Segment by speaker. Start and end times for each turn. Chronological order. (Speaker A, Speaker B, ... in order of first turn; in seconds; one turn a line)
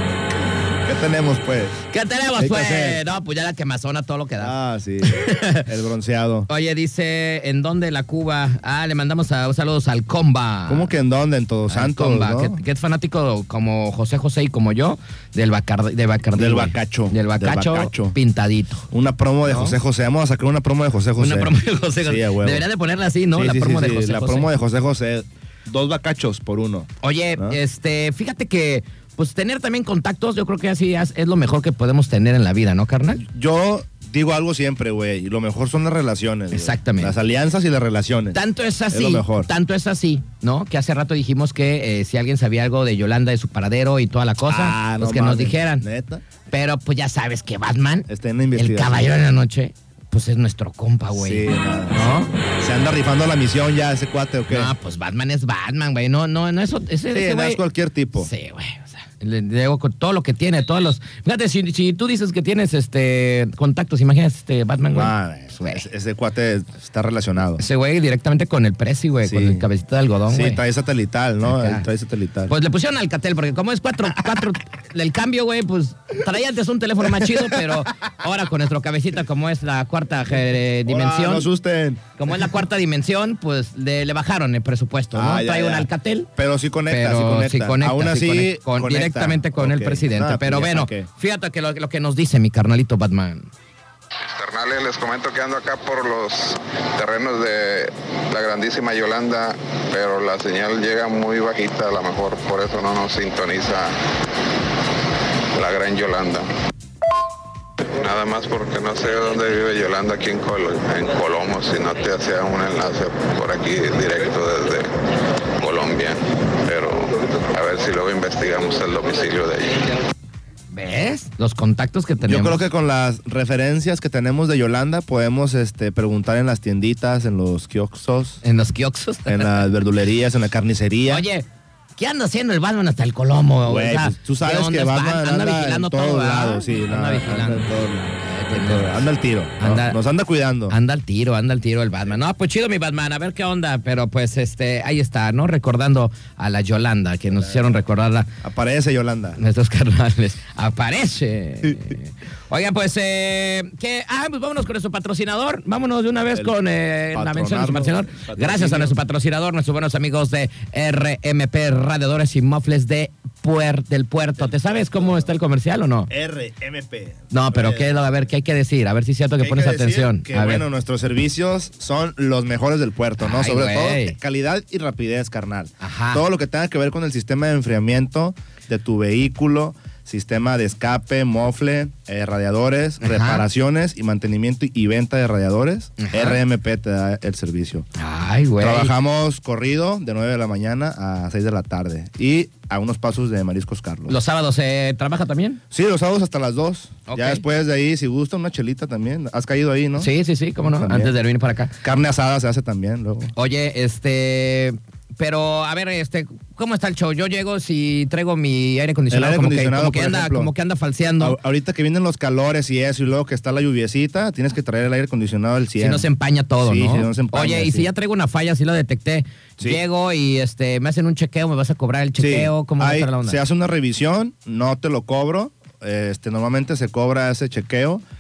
Speaker A: 0.8-1.8
Speaker B: 1.9-5.7
Speaker A: 2.4-3.0
Speaker A: 4.4-6.5
Speaker B: 6.5-10.9
Speaker A: 10.7-12.6
Speaker B: 11.7-18.9
Speaker A: 16.4-18.2
Speaker A: 18.9-22.6
Speaker B: 19.4-19.8
Speaker B: 21.2-24.5
Speaker A: 23.4-27.6
Speaker B: 27.0-33.2
Speaker A: 33.2-39.5
Speaker B: 36.5-37.2
Speaker B: 38.3-45.8
Speaker A: 44.5-46.2
Speaker B: 46.5-52.3
Speaker A: 48.1-49.1
Speaker A: 51.1-54.7
Speaker B: 54.5-57.6
Speaker A: 57.1-58.3
Speaker B: 58.2-65.8
Speaker A: 64.9-67.6
Speaker B: 67.6-70.6
Speaker A: 69.2-69.7
Speaker A: 70.3-72.5
Speaker B: 71.5-71.9
Speaker B: 72.5-81.5
Speaker A: 77.2-77.6
Speaker A: 80.9-82.1
Speaker B: 82.2-86.3
Speaker A: 85.1-91.1
Speaker B: 86.9-93.5
Speaker C: 94.2-104.0
Speaker C: 105.5-106.5
Speaker C: 108.0-114.9
Speaker C: 115.6-120.0
Speaker B: 120.7-122.6
Speaker A: 122.2-128.4
Speaker B: 128.4-129.7
Speaker A: 129.3-131.2
Speaker B: 131.1-131.5
Speaker B: 132.0-140.0
Speaker A: 133.7-140.8
Speaker B: 140.7-148.3
Speaker A: 147.3-147.8
Speaker A: 148.4-149.4
Speaker B: 149.4-166.1
Speaker A: 157.1-159.0
Speaker A: 164.4-165.2
Speaker A: 166.1-168.1
Speaker B: 167.3-170.6
Speaker A: 169.4-187.9
Speaker B: 173.2-174.2
Speaker B: 175.8-176.2
Speaker B: 183.0-183.4
Speaker B: 186.0-186.4
Speaker B: 188.0-188.9
Speaker A: 188.6-194.2
Speaker B: 194.1-195.6
Speaker A: 195.7-200.1
Speaker B: 197.1-197.4
Speaker B: 200.0-201.7
Speaker A: 200.6-201.1
Speaker A: 201.8-203.3
Speaker B: 203.3-211.4
Speaker A: 209.1-210.5
Speaker A: 211.2-216.1
Speaker B: 215.8-223.4
Speaker A: 216.6-217.9
Speaker A: 222.2-228.0